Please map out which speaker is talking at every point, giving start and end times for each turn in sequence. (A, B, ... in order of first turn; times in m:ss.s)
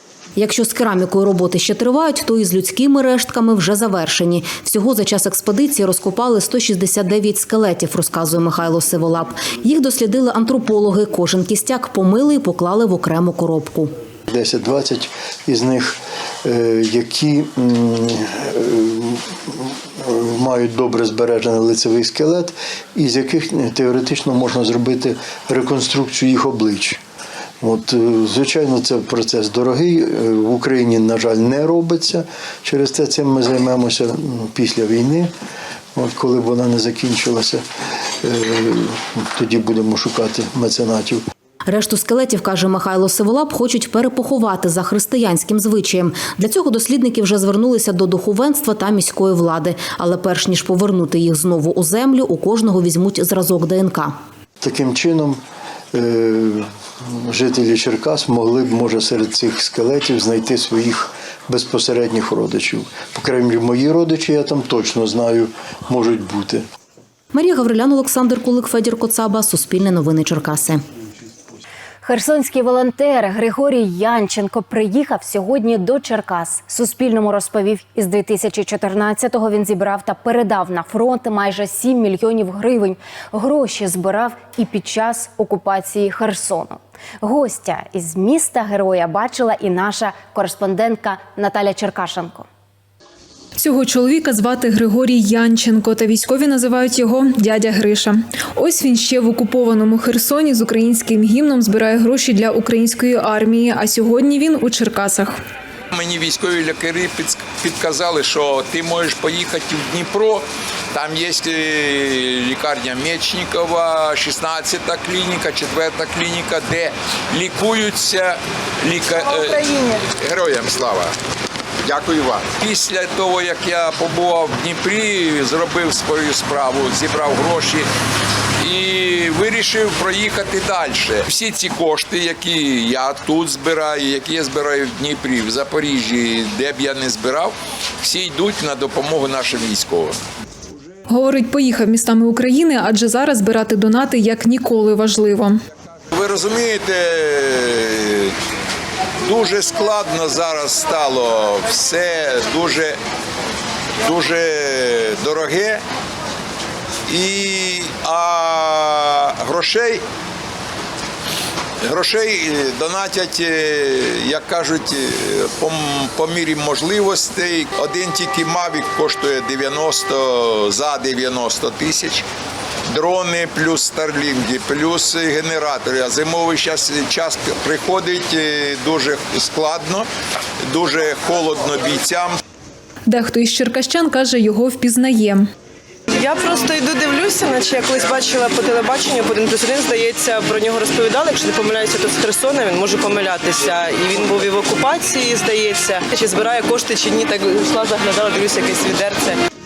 0:00.4-0:13.9 A
0:14.3-0:27.0 B
0:27.6-0:35.3 B
0:36.0-0:37.6 B
0:38.2-0:41.2 B
0:41.7-0:54.2 A
0:54.6-0:55.4 B
0:55.9-1:06.6 B
1:07.3-1:10.8 A
1:12.0-1:32.5 C
1:33.6-1:45.4 D
1:45.9-2:01.1 E
2:01.8-2:07.9 E
2:08.6-2:20.2 E
2:21.1-2:25.6 D
2:26.1-2:28.3 E
2:29.3-2:33.0 E
2:34.0-2:35.8 E
2:37.1-2:40.0 E
2:41.9-2:52.2 E
2:52.9-3:00.1 E
3:00.7-3:02.4 E
3:03.1-3:05.5 D
3:06.2-3:06.6 F
3:07.2-3:19.3 F